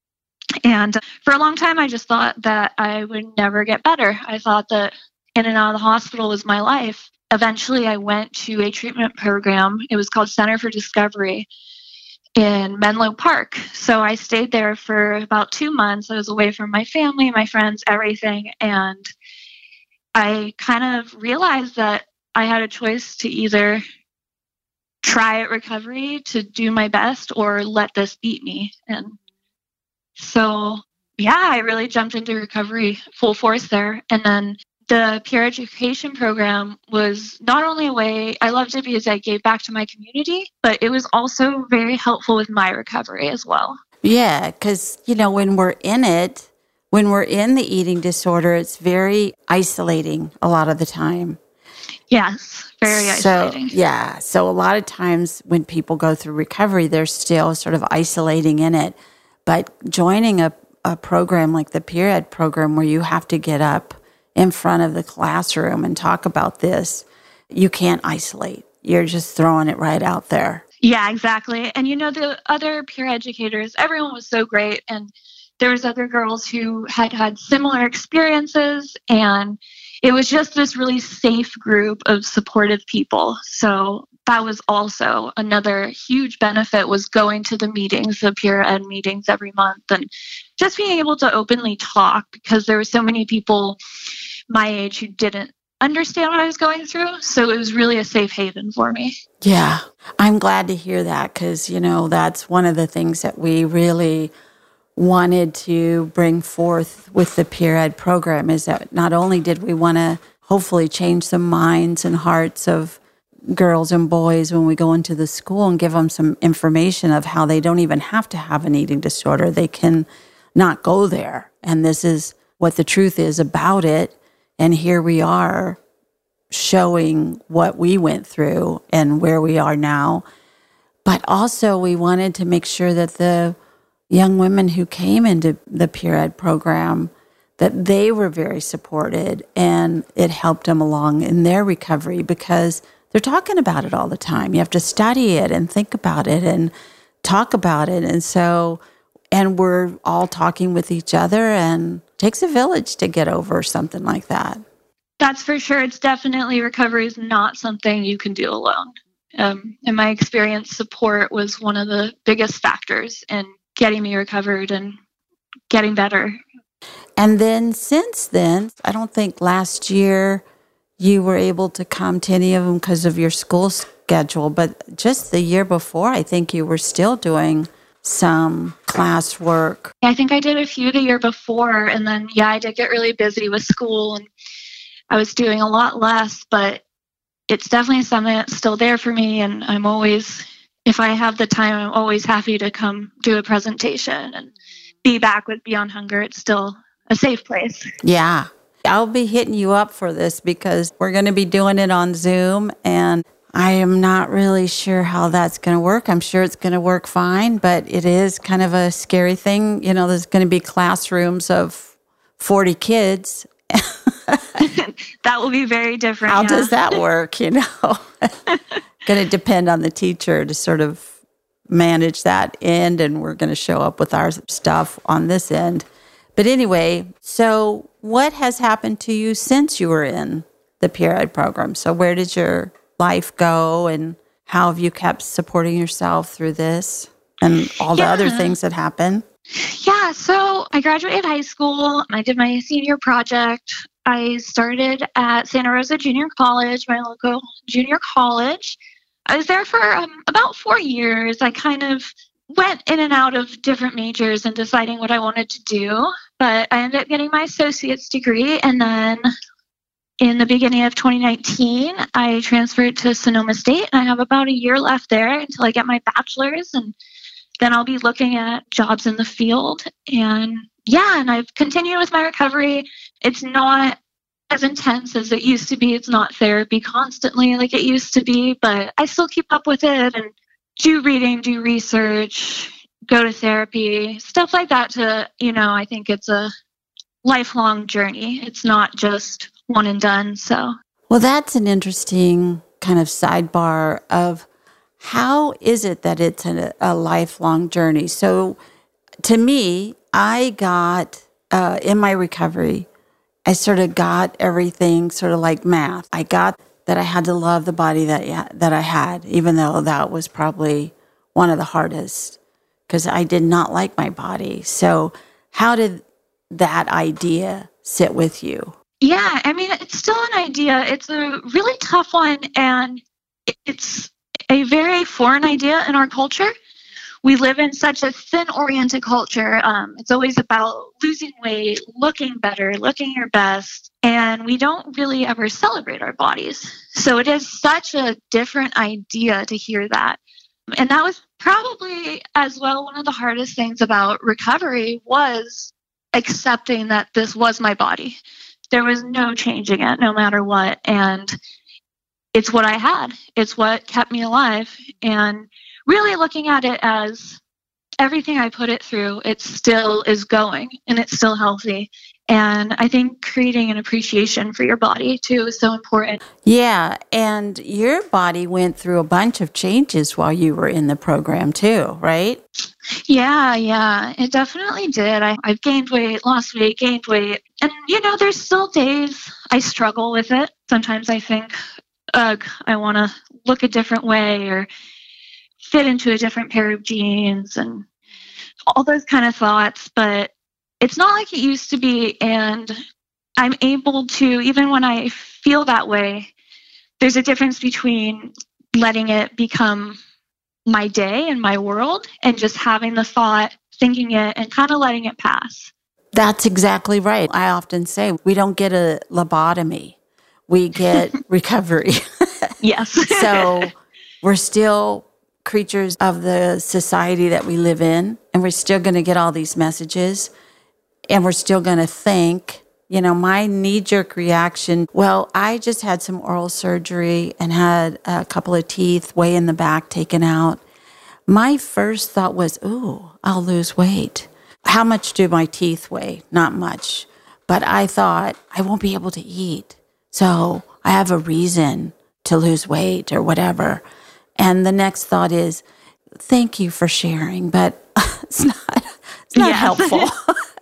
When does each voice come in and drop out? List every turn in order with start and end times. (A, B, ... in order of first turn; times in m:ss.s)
0:00.6-0:11.5 A
0:12.4-0:19.1 A
0:20.1-0:23.8 A
0:25.0-0:29.2 A
0:30.2-0:43.8 A
0:44.0-0:51.4 B
0:52.1-0:53.7 A
0:52.9-1:10.6 B
1:10.8-1:33.8 A
1:34.5-1:39.1 A
1:39.4-1:44.3 B
1:45.0-1:53.0 B
1:53.5-2:05.8 B
2:06.5-2:10.2 B
2:11.0-2:13.6 B
2:14.1-2:26.7 B
2:27.2-2:28.8 B
2:29.3-2:34.6 B
2:35.2-2:45.0 A
2:45.7-2:46.4 A
2:47.2-2:50.4 B
2:51.0-2:59.9 B
3:00.0-3:04.2 A
3:05.1-3:06.8 A
3:07.5-3:14.5 A
3:15.0-3:17.8 A
3:18.0-3:34.6 B
3:34.6-3:36.8 A
3:36.3-3:38.1 B
3:39.0-3:41.1 B
3:41.7-3:45.8 B
3:46.4-3:59.2 B
3:57.9-3:58.5 A
3:59.6-4:19.2 A
4:20.2-4:26.9 A
4:27.6-4:34.0 A
4:34.5-4:46.5 A
4:47.2-4:50.7 A
4:51.1-4:54.5 B
4:55.0-4:58.6 B
4:59.2-5:02.9 B
5:03.5-5:12.4 B
5:12.9-5:18.7 B
5:19.0-5:26.5 A
5:27.2-5:40.2 A
5:40.8-5:48.2 A
5:48.7-5:51.3 A
5:52.3-5:57.4 A
5:58.0-6:06.2 A
6:06.4-6:12.4 B
6:13.1-6:21.5 A
6:22.1-6:24.7 A
6:25.6-6:27.8 A
6:28.7-6:32.8 A
6:33.4-6:36.3 A
6:37.0-6:40.0 A
6:40.6-6:45.7 A
6:46.1-6:50.0 B
6:50.5-6:52.5 B
6:52.6-6:53.7 A
6:53.1-7:00.3 B
7:01.1-7:10.6 B
7:11.3-7:23.8 B
7:24.4-7:25.6 B
7:26.2-7:30.2 B
7:29.4-7:30.1 A